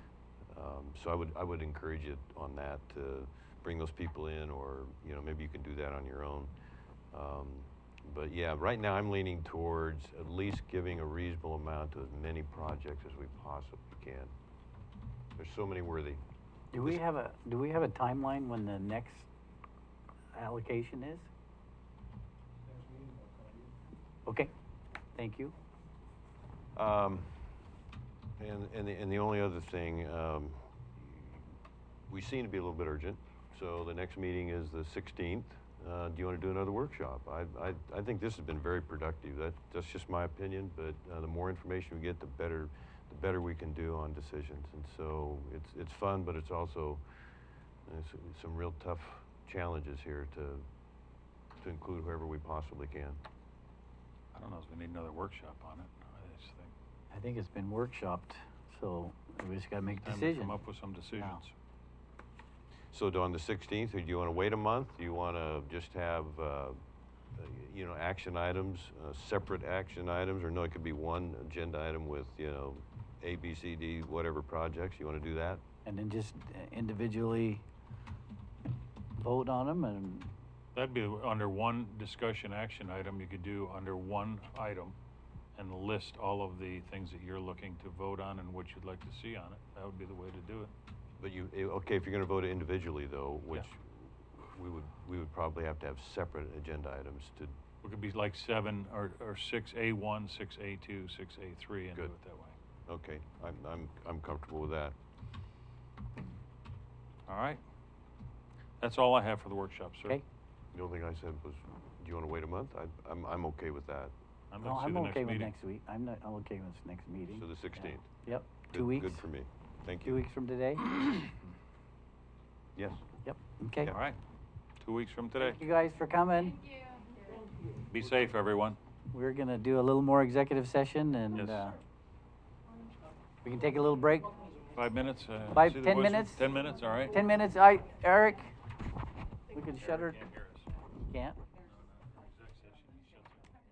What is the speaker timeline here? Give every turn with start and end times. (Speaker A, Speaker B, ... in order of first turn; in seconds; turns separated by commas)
Speaker A: 0.5-6.5, Speaker A: 7.1-14.3, Speaker A: 15.4-16.2, Speaker B: 16.7-19.3, Speaker B: 20.3-21.3, Speaker B: 24.2-24.5, Speaker B: 25.1-25.6, Speaker A: 26.7-27.4, Speaker A: 28.4-31.5, Speaker A: 32.1-47.0, Speaker A: 47.9-50.6, Speaker A: 51.6-53.2, Speaker C: 54.3-56.7, Speaker B: 57.1-60.6, Speaker C: 60.0-61.5, Speaker B: 61.1-61.4, Speaker A: 62.9-66.8, Speaker A: 67.3-75.6, Speaker B: 75.8-77.6, Speaker B: 79.2-80.3, Speaker C: 80.7-85.0, Speaker C: 85.5-90.7, Speaker A: 91.2-97.6, Speaker C: 97.8-102.6, Speaker A: 102.9-105.0, Speaker C: 107.3-107.6, Speaker C: 108.8-110.2, Speaker A: 110.7-114.1, Speaker C: 114.5-115.5, Speaker B: 114.6-119.3, Speaker A: 117.3-120.2, Speaker B: 120.0-121.1, Speaker A: 122.8-123.0, Speaker B: 123.2-123.9, Speaker C: 123.9-124.2, Speaker C: 124.8-125.6, Speaker B: 125.3-126.6, Speaker C: 127.9-128.8, Speaker B: 129.1-131.8, Speaker C: 131.3-131.7, Speaker B: 133.4-134.3, Speaker C: 134.7-137.2, Speaker B: 135.5-136.5, Speaker B: 137.1-138.5, Speaker B: 139.5-140.2, Speaker C: 139.8-140.7, Speaker B: 141.1-141.4, Speaker C: 141.7-143.5